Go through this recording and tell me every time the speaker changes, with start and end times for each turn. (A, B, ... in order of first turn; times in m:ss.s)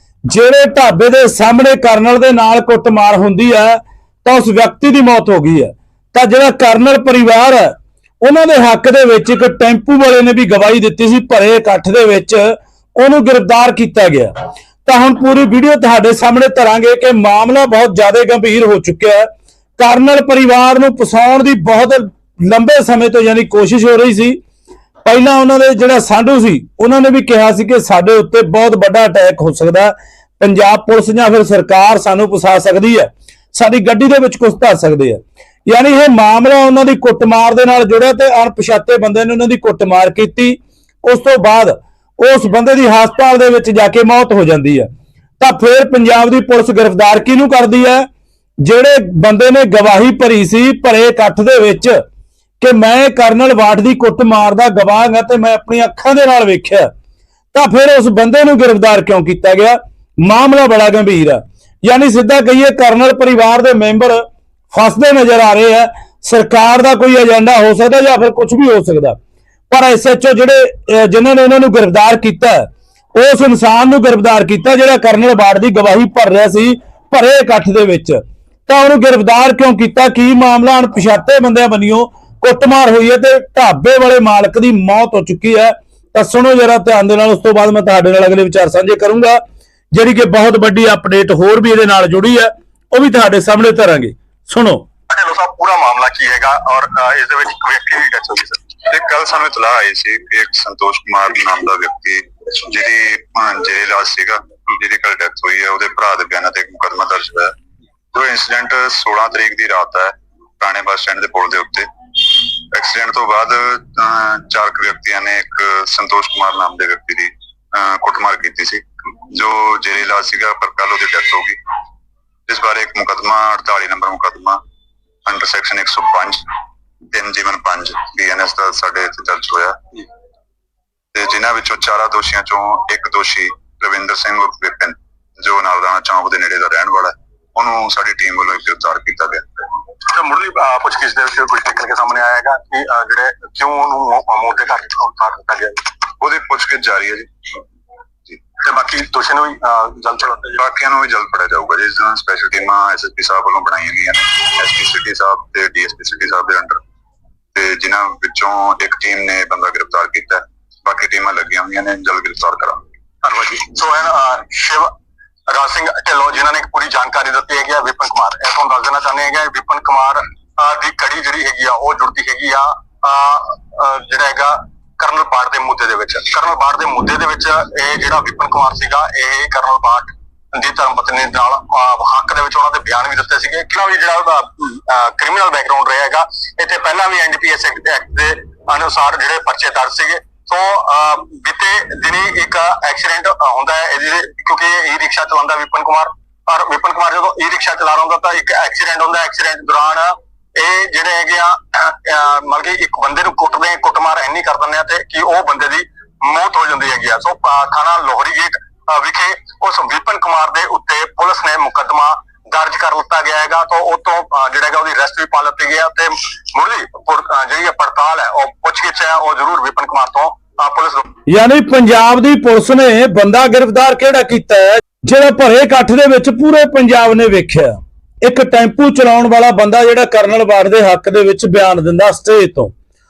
0:00.3-0:14.3 A
0:14.8-0:24.4 A
0:25.0-0:44.9 A
0:45.4-0:48.1 A
0:48.6-0:52.0 A
0:52.6-0:56.9 A
0:57.5-1:09.2 A
1:09.7-1:29.4 A
1:29.9-1:34.8 A
1:35.1-1:38.7 B
1:38.9-1:47.5 C
1:48.1-2:01.6 C
2:02.5-2:04.6 C
2:05.2-2:06.4 C
2:07.1-2:10.0 C
2:11.1-2:19.6 C
2:20.1-2:25.9 B
2:26.2-2:27.6 C
2:28.6-2:30.6 B
2:30.6-2:36.8 C
2:37.5-2:42.8 C
2:43.2-2:44.9 B
2:45.5-3:41.1 B
3:41.3-3:52.7 A